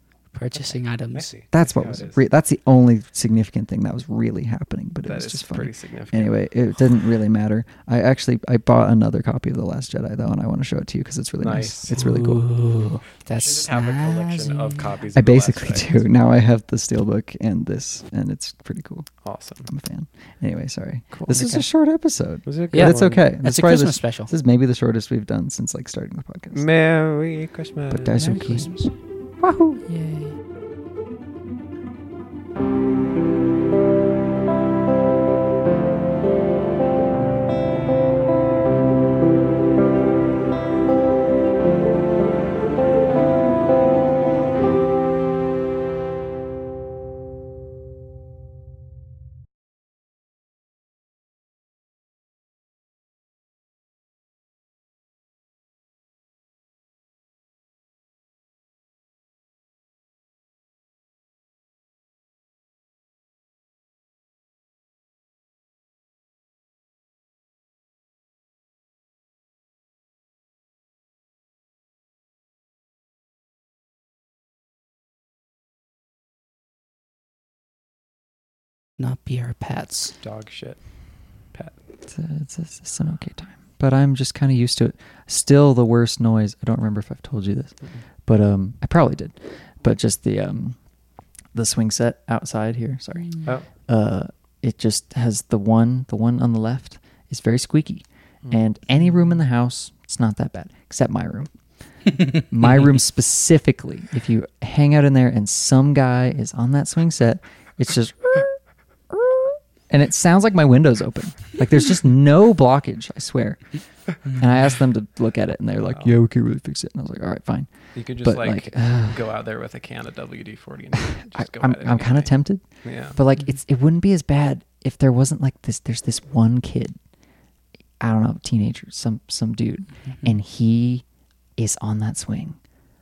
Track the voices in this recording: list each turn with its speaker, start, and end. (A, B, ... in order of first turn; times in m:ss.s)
0:00.3-0:01.3 A
0:00.6-0:02.2 B
0:01.5-0:12.5 C
0:05.0-0:06.3 B
0:11.4-0:12.0 B
0:11.9-0:14.9 A
0:13.4-0:16.0 B
0:15.1-0:19.1 C
0:19.2-0:19.7 B
0:19.7-0:26.6 C
0:21.1-0:21.6 B
0:21.3-0:21.6 A
0:22.5-0:23.2 B
0:22.7-0:24.3 A
0:26.5-0:28.6 B
0:27.9-0:28.7 C
0:28.1-0:28.9 A
0:29.4-0:29.8 C
0:29.9-0:30.4 A
1:19.0-1:20.1 A
1:20.2-1:20.8 B
1:22.1-1:27.8 C
1:28.3-1:30.8 C
1:31.5-1:41.5 C
1:42.2-1:48.6 C
1:49.1-1:53.6 C
1:54.3-1:57.7 C
1:55.9-1:56.2 B
1:58.0-2:02.3 B
1:58.2-1:59.2 C
2:01.3-2:07.0 C
2:02.8-2:03.2 B
2:08.0-2:11.0 C
2:11.6-2:12.6 C